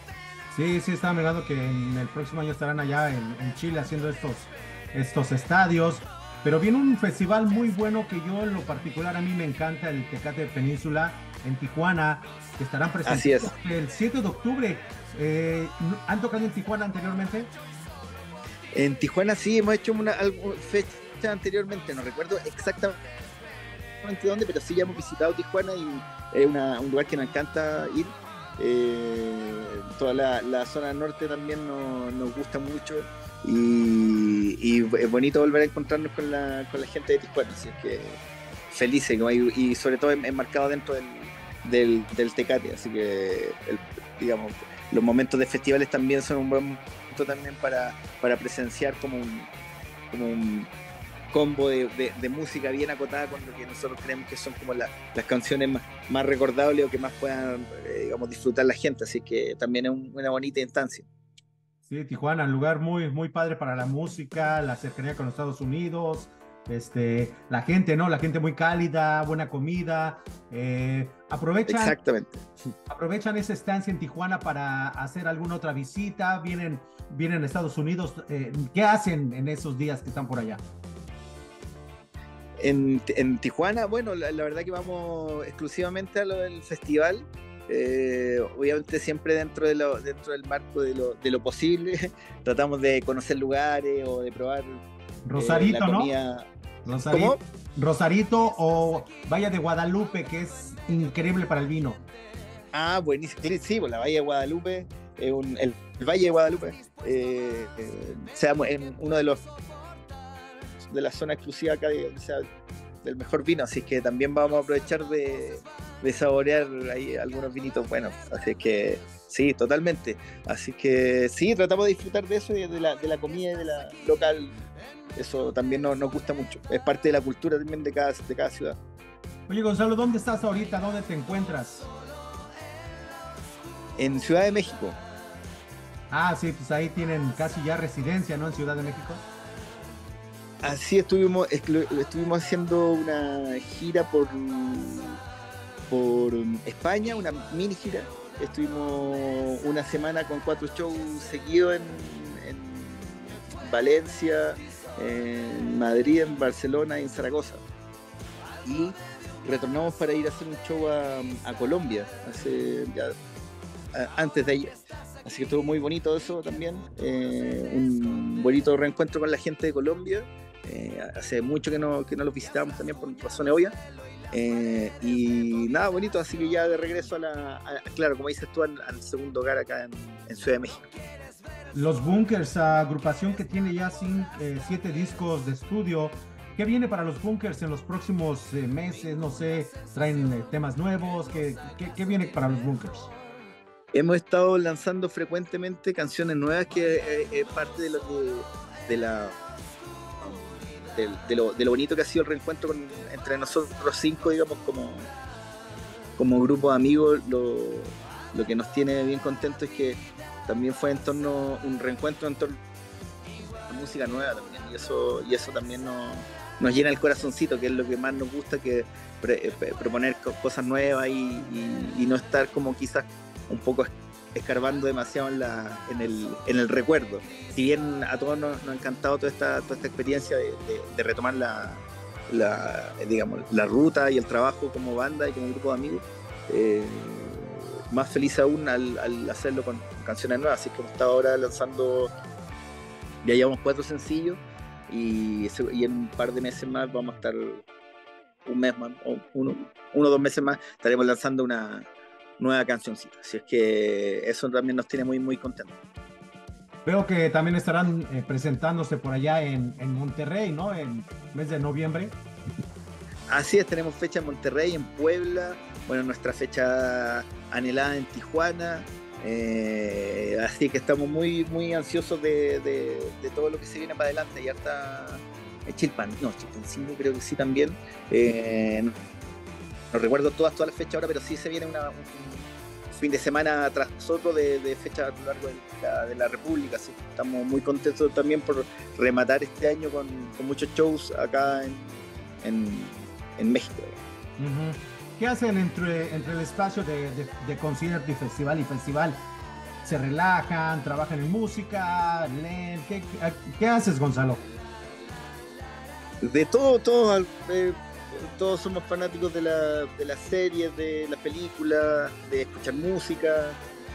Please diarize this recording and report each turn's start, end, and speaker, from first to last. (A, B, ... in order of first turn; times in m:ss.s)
0:00.5-0:17.5 A
0:13.0-0:13.5 B
0:18.7-0:23.0 B
0:24.0-0:38.2 B
0:38.7-0:49.5 B
0:50.1-0:50.7 B
0:51.3-1:01.0 B
1:01.8-1:12.0 A
1:11.7-1:12.4 B
1:12.9-1:20.6 A
1:22.6-1:34.8 B
1:35.2-1:36.1 A
1:35.3-1:36.5 B
1:36.8-1:42.0 A
1:37.1-1:37.4 B
1:42.7-1:49.4 B
1:50.9-1:52.4 B
1:53.0-2:04.5 B
2:05.2-2:08.8 B
2:09.5-2:11.9 A
2:14.0-2:15.0 B
2:16.1-2:19.2 A
2:20.6-2:25.2 B
2:25.9-2:37.6 B
2:38.6-2:43.1 B
2:43.9-2:53.7 B
2:54.3-3:00.9 B
3:01.7-3:13.1 A
3:13.9-3:19.4 B
3:20.2-3:25.1 B
3:26.2-3:32.6 B
3:33.7-4:02.1 B
4:03.2-4:07.6 B
4:08.4-4:11.9 B
4:12.4-4:15.8 B
4:16.8-4:22.2 A
4:23.3-4:38.9 B
4:39.9-4:54.0 B
4:54.4-4:59.2 A
4:59.8-5:04.4 A
5:06.2-5:13.6 B